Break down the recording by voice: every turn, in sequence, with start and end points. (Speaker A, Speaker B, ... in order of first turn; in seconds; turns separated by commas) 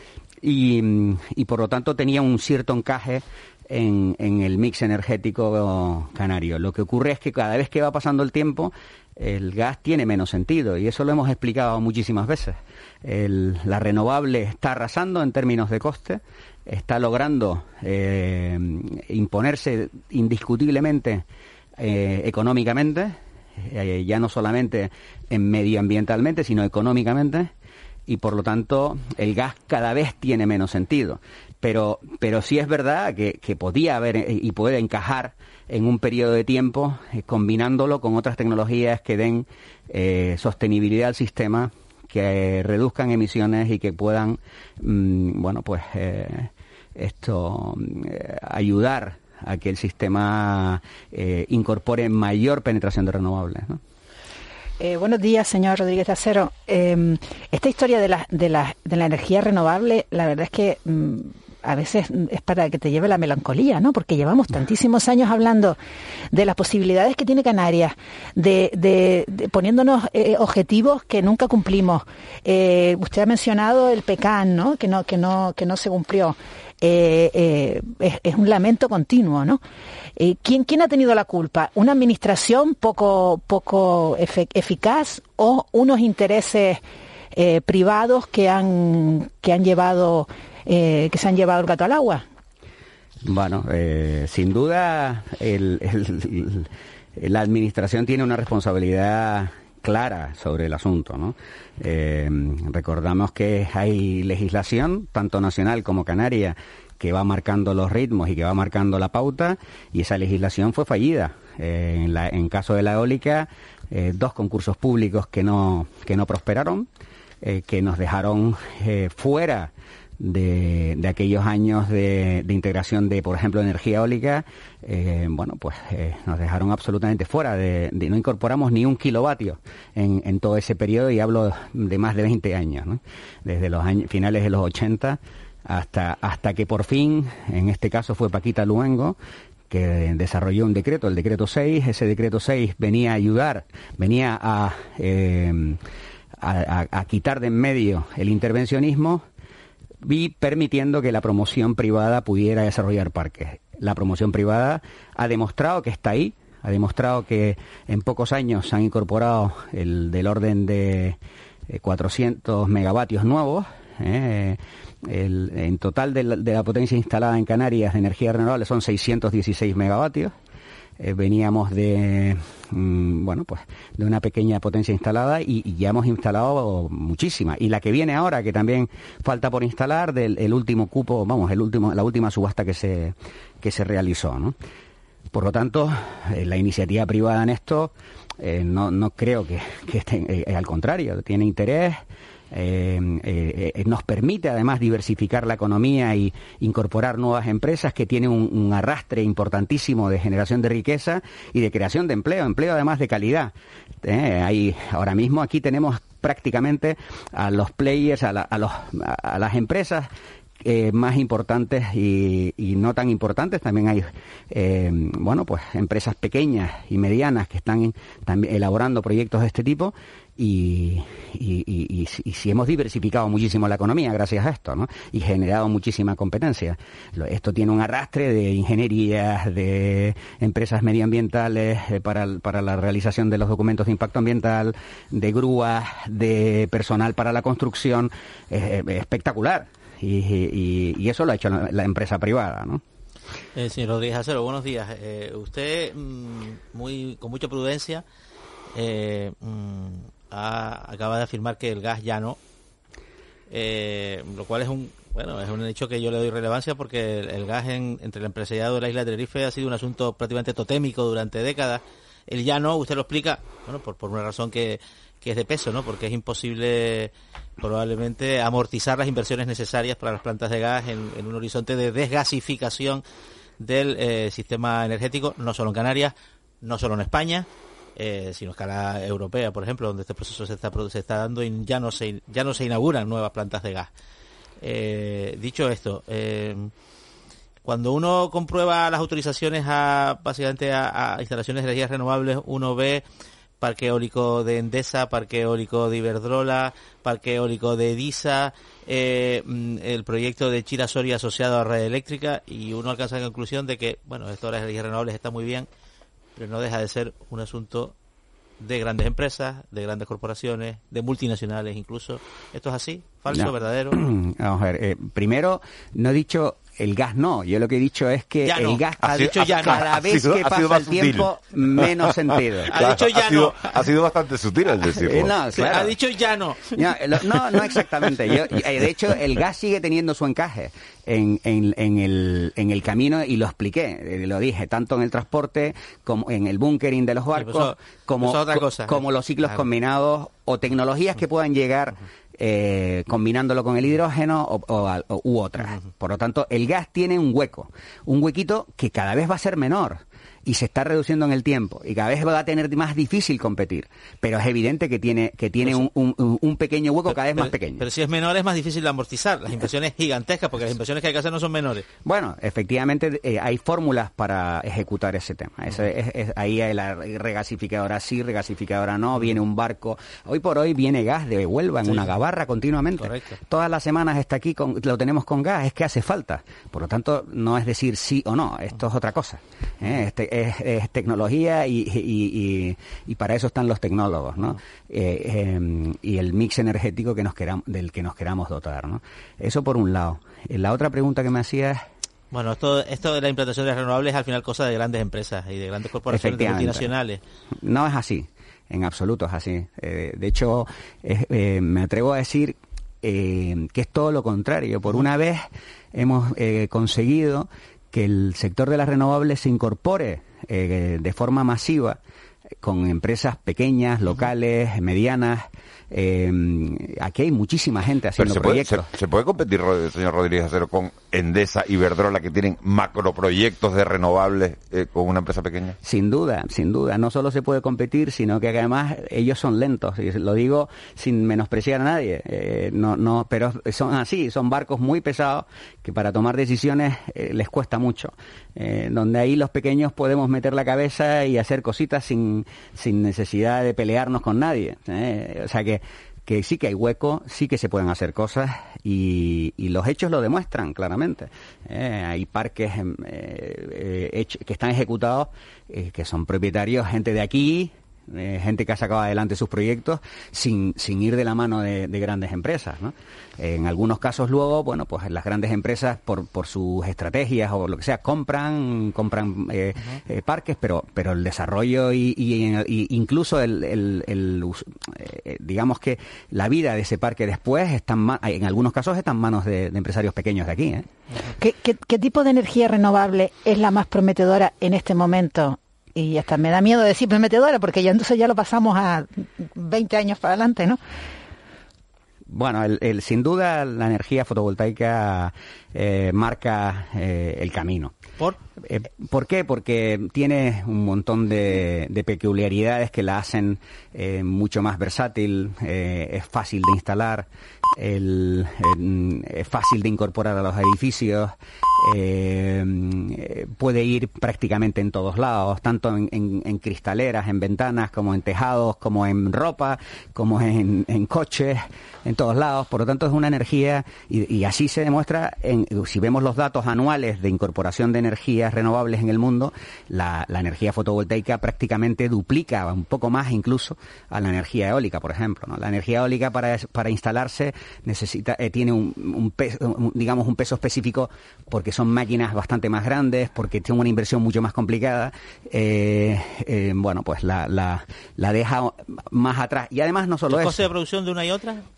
Speaker A: 0.4-21.2, Speaker A: 21.8-27.5, Speaker A: 28.1-53.8, Speaker B: 54.8-65.8, Speaker B: 66.3-79.6, Speaker B: 80.2-86.8, Speaker B: 87.3-92.2, Speaker A: 93.2-116.9, Speaker A: 117.4-139.2, Speaker A: 139.7-145.8, Speaker A: 146.4-149.2, Speaker A: 150.0-161.2, Speaker A: 161.7-170.3, Speaker A: 171.0-184.5, Speaker A: 185.3-210.1, Speaker A: 210.6-242.8, Speaker C: 243.5-248.0, Speaker C: 248.7-252.4, Speaker C: 253.5-273.0, Speaker C: 273.6-283.9, Speaker C: 284.6-286.7, Speaker C: 287.6-293.0, Speaker C: 293.6-305.7, Speaker C: 306.4-307.9, Speaker C: 308.6-314.0, Speaker A: 313.3-322.8, Speaker C: 318.4-319.9, Speaker D: 319.1-325.5, Speaker C: 322.7-323.8, Speaker A: 325.0-325.9, Speaker C: 325.5-326.8, Speaker A: 326.7-357.8, Speaker C: 337.3-339.0, Speaker C: 357.1-361.9, Speaker A: 362.0-391.8, Speaker C: 373.0-373.4, Speaker C: 392.3-397.2, Speaker A: 396.1-396.9, Speaker A: 397.6-412.0, Speaker A: 412.6-418.9, Speaker D: 418.2-425.8, Speaker A: 425.8-480.9, Speaker B: 481.4-490.8, Speaker A: 492.3-497.9, Speaker A: 498.6-550.7, Speaker C: 550.3-551.7